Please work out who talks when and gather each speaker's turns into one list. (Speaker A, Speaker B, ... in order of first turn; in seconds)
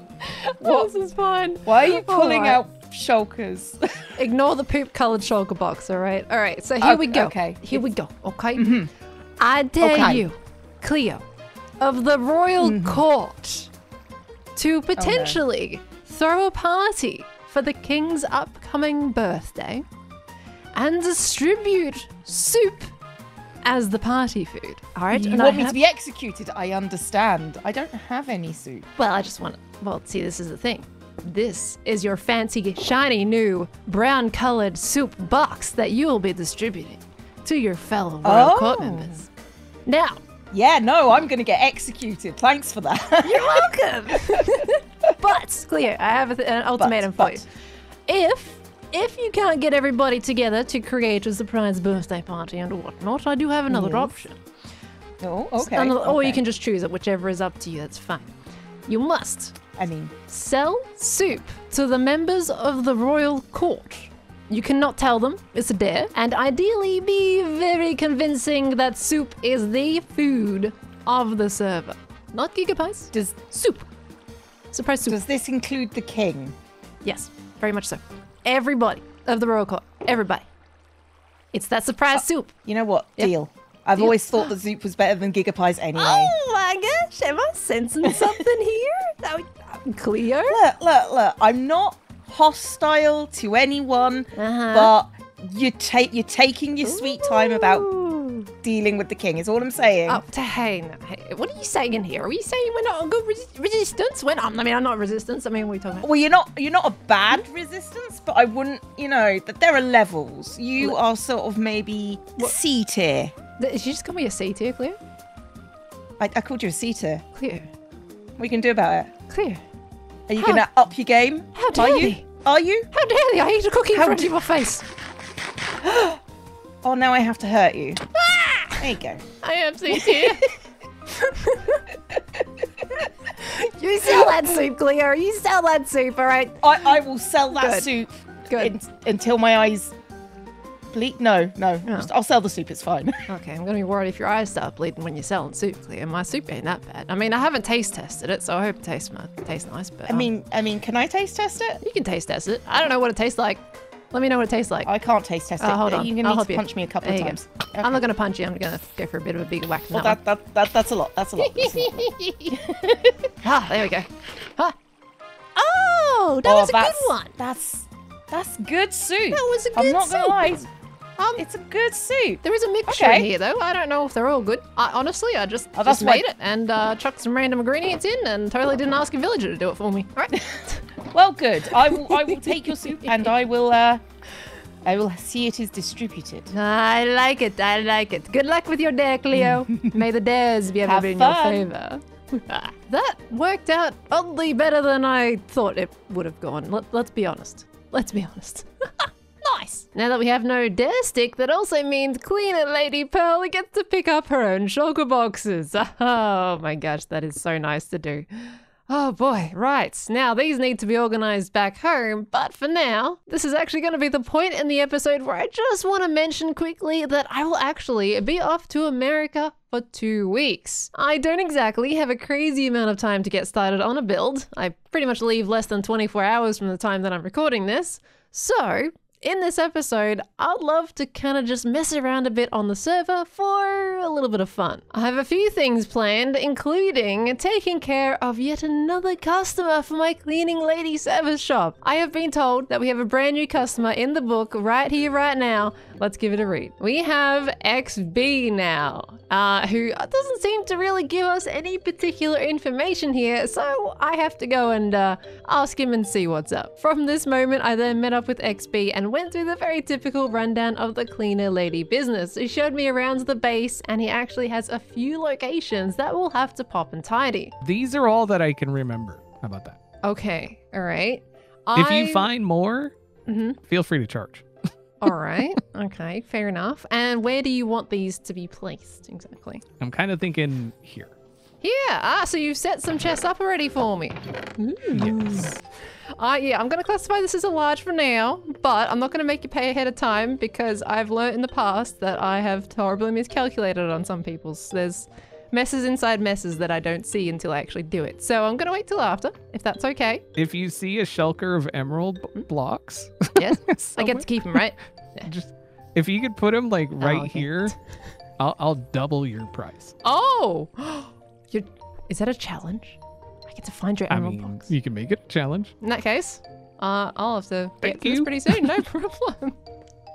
Speaker A: 0.2-2.6, 4.2-8.8, 9.4-11.2, 11.8-13.7, 14.6-19.9, 20.7-22.9, 23.6-25.8, 29.0-39.3, 39.9-40.2, 43.2-47.5, 48.1-54.4, 55.6-58.3, 58.9-59.6, 60.3-73.9, 74.7-75.2, 77.0-80.5, 81.5-82.6, 84.0-84.5, 86.0-90.6, 94.3-94.9, 96.8-98.5, 100.1-106.1, 113.6-115.0, 117.3-117.7, 119.3-119.6, 120.4-120.7, 121.5-122.2, 122.9-124.8, 128.2-128.9, 129.4-130.6, 131.1-136.6, 137.6-137.9, 138.5-138.8, 141.8-142.1, 143.3-150.3, 151.8-154.9, 155.6-160.2, 161.4-162.7, 163.4-164.8, 165.6-167.3, 169.3-170.5, 171.2-171.4, 172.4-180.9, 181.7-183.3, 186.5-267.5, 270.0-272.3, 273.3-273.6, 275.0-279.6, 281.6-285.6, 286.2-300.2, 303.4-305.3, 307.0-307.7, 310.0-314.7, 315.8-319.6
Speaker B: 0.6-0.9, 1.6-4.1, 6.8-7.8, 8.6-8.9, 9.8-10.2, 12.6-13.0, 15.0-15.4, 25.1-28.9, 38.2-39.1, 40.5-44.6, 46.8-47.4, 53.7-54.2, 55.2-56.4, 59.8-60.1, 75.1-76.5, 82.2-86.3, 90.5-97.9, 98.6-100.2, 106.0-113.3, 116.2-117.2, 118.4-119.1, 120.3-122.9, 123.9-124.3, 125.8-126.2, 126.8-128.1, 128.8-129.2, 129.9-130.5, 136.6-139.9, 140.9-143.3, 150.1-151.8, 154.8-158.0, 159.9-161.9, 162.7-163.0, 166.5-170.7, 171.4-173.3, 175.8-176.2, 181.1-184.0, 184.8-186.5, 189.4-189.9, 190.8-191.7
Speaker C: 267.6-269.8, 271.8-272.9, 273.6-274.4, 279.8-281.2, 284.9-285.5, 300.4-304.7, 305.2-307.8, 308.4-309.9, 314.1-315.7, 317.8-318.7